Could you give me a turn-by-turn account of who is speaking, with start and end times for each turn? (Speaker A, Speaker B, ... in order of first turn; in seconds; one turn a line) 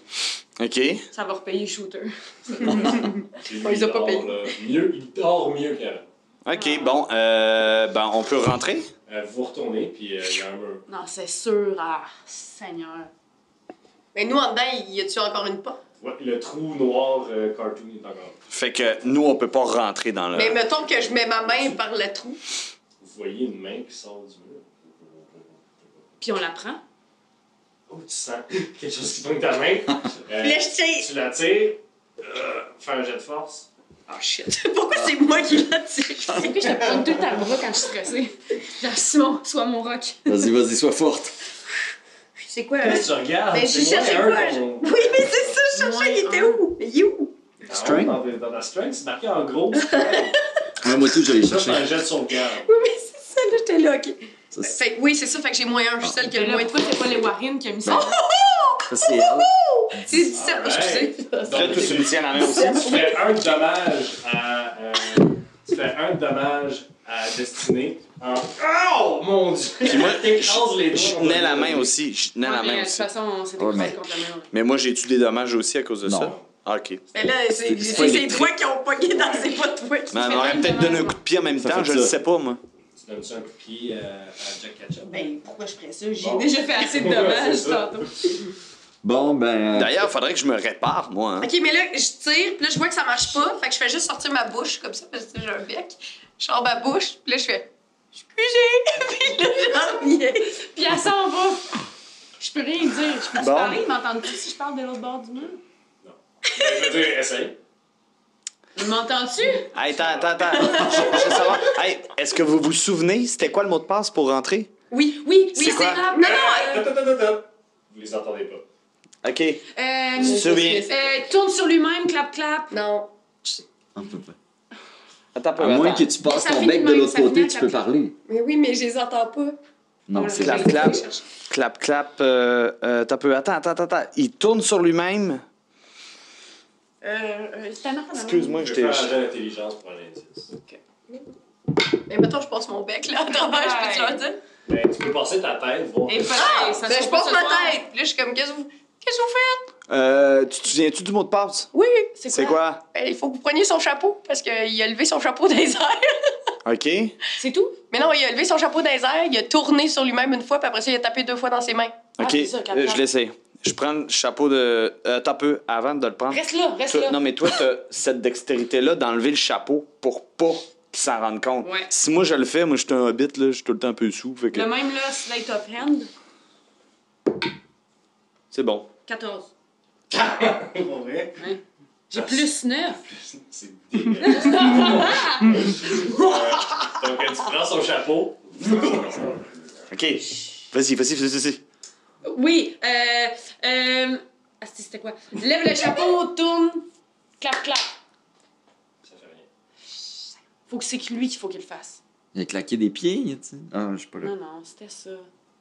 Speaker A: 0.6-1.1
Speaker B: 1.1-3.0
Speaker C: 2.5-6.0
Speaker D: 2.6-4.5
Speaker A: 6.5-8.9
Speaker B: 6.5-7.0
Speaker C: 9.1-10.8
Speaker B: 10.9-13.1
Speaker D: 14.1-15.8
Speaker C: 16.0-18.4
Speaker A: 18.5-20.6
Speaker D: 20.3-22.4
Speaker C: 23.0-26.1
Speaker B: 26.2-26.8
Speaker C: 27.9-33.7
Speaker D: 30.4-31.1
Speaker D: 34.1-37.5
Speaker B: 36.3-40.4
Speaker E: 40.3-41.4
Speaker D: 42.4-47.4
Speaker C: 42.8-45.6
Speaker B: 45.7-46.6
Speaker C: 47.6-50.4
Speaker E: 47.7-48.2
Speaker D: 49.7-50.4
Speaker E: 50.8-51.9
Speaker C: 51.4-52.8
Speaker D: 52.6-57.2
Speaker B: 56.3-58.2
Speaker D: 57.9-63.2
Speaker E: 58.9-60.3
Speaker C: 60.3-71.9
Speaker A: 61.5-63.1
Speaker A: 69.8-73.1
Speaker B: 72.4-74.5
Speaker E: 73.6-74.0
Speaker A: 74.5-77.0
Speaker E: 76.0-76.3
Speaker C: 76.2-76.5
Speaker D: 77.1-80.6
Speaker E: 77.6-78.5
Speaker A: 77.8-78.4
Speaker C: 79.1-79.5
Speaker A: 80.1-82.6
Speaker B: 80.2-81.2
Speaker E: 81.6-82.1
Speaker C: 83.0-85.3
Speaker B: 85.0-88.4
Speaker C: 86.2-88.3
Speaker E: 89.0-90.0
Speaker A: 89.8-91.5
Speaker D: 91.4-100.6
Speaker B: 100.6-101.8
Speaker B: 102.4-105.6
Speaker A: 103.4-103.8
Speaker C: 106.0-107.6
Speaker D: 106.5-106.9
Speaker B: 108.8-109.7
Speaker A: 109.7-114.7
Speaker C: 109.9-110.3
Speaker D: 110.6-111.3
Speaker D: 114.9-116.8
Speaker B: 115.2-116.8
Speaker A: 115.6-116.0
Speaker C: 116.1-118.6
Speaker A: 119.2-119.6
Speaker B: 119.7-122.8
Speaker D: 120.2-121.1
Speaker A: 120.2-120.9
Speaker D: 122.7-123.5
Speaker E: 124.0-124.4
Speaker A: 125.3-126.1
Speaker E: 125.6-128.2
Speaker B: 126.2-127.8
Speaker D: 128.3-129.6
Speaker E: 130.1-130.8
Speaker B: 130.1-131.1
Speaker A: 130.4-135.4
Speaker D: 130.4-131.2
Speaker B: 137.0-138.6
Speaker A: 138.1-139.2
Speaker C: 138.6-140.5
Speaker B: 140.5-140.8
Speaker D: 141.9-144.4
Speaker B: 143.3-144.3
Speaker C: 144.7-146.5
Speaker B: 146.1-147.8
Speaker D: 146.3-149.7
Speaker A: 149.9-151.7
Speaker D: 151.7-152.2
Speaker B: 152.2-152.6
Speaker A: 152.3-152.8
Speaker D: 152.9-156.5
Speaker A: 156.7-157.2
Speaker B: 157.4-157.8
Speaker D: 157.9-162.0
Speaker A: 162.2-174.7
Speaker B: 162.2-163.0
Speaker B: 166.3-167.5
Speaker B: 171.6-171.9
Speaker B: 174.5-176.1
Speaker A: 178.5-178.9
Speaker B: 179.1-179.5
Speaker C: 180.1-181.5
Speaker B: 181.4-183.0
Speaker C: 182.1-182.4
Speaker C: 183.1-189.6
Speaker B: 184.2-185.6
Speaker D: 185.4-186.3
Speaker A: 189.9-191.6
Speaker B: 192.2-196.9
Speaker B: 197.4-197.9
Speaker C: 199.0-199.5
Speaker B: 200.7-202.0
Speaker E: 202.3-204.3
Speaker B: 204.2-205.3